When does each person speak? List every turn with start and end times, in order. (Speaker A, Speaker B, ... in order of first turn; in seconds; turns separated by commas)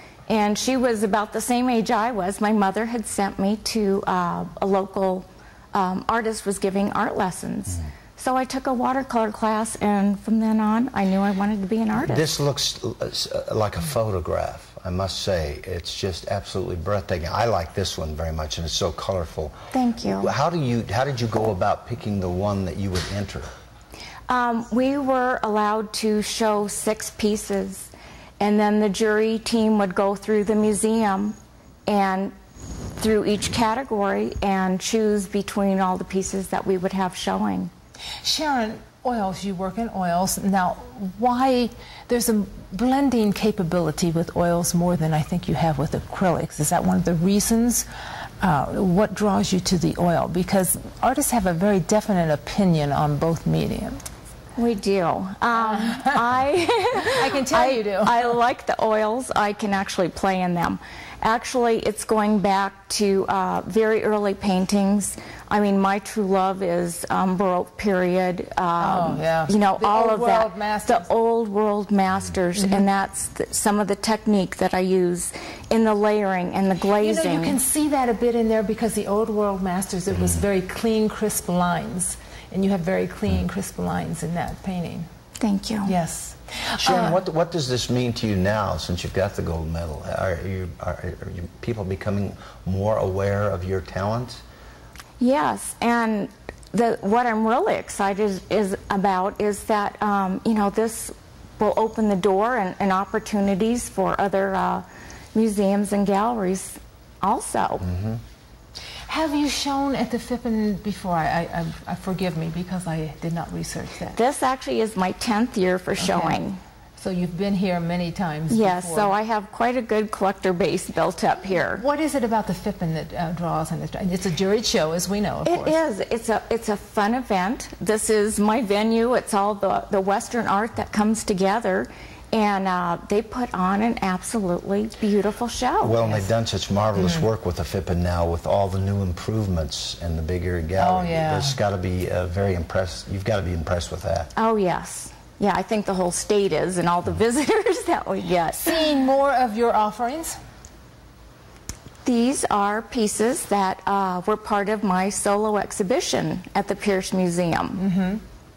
Speaker A: 0.3-12.3, Speaker B: 12.0-19.5, Speaker A: 19.7-20.3, Speaker B: 20.2-23.5, Speaker A: 24.3-31.4, Speaker A: 31.9-32.3, Speaker A: 33.0-37.7, Speaker C: 38.2-47.9, Speaker C: 48.4-54.0, Speaker A: 54.6-77.6, Speaker C: 55.7-56.2, Speaker C: 57.0-58.4, Speaker C: 68.8-71.1, Speaker C: 72.6-72.9, Speaker C: 77.0-85.1, Speaker A: 85.4-85.9, Speaker C: 85.9-87.2, Speaker B: 86.8-94.4, Speaker A: 95.2-107.9, Speaker C: 109.1-114.2, Speaker A: 114.1-116.6, Speaker C: 116.0-116.4, Speaker C: 117.0-119.2, Speaker A: 118.5-121.8, Speaker C: 121.8-125.8, Speaker A: 125.5-136.2, Speaker B: 135.8-144.3, Speaker C: 137.0-137.2, Speaker C: 140.8-141.6, Speaker A: 144.4-148.8, Speaker C: 148.6-150.4, Speaker A: 152.1-157.8, Speaker C: 157.8-158.2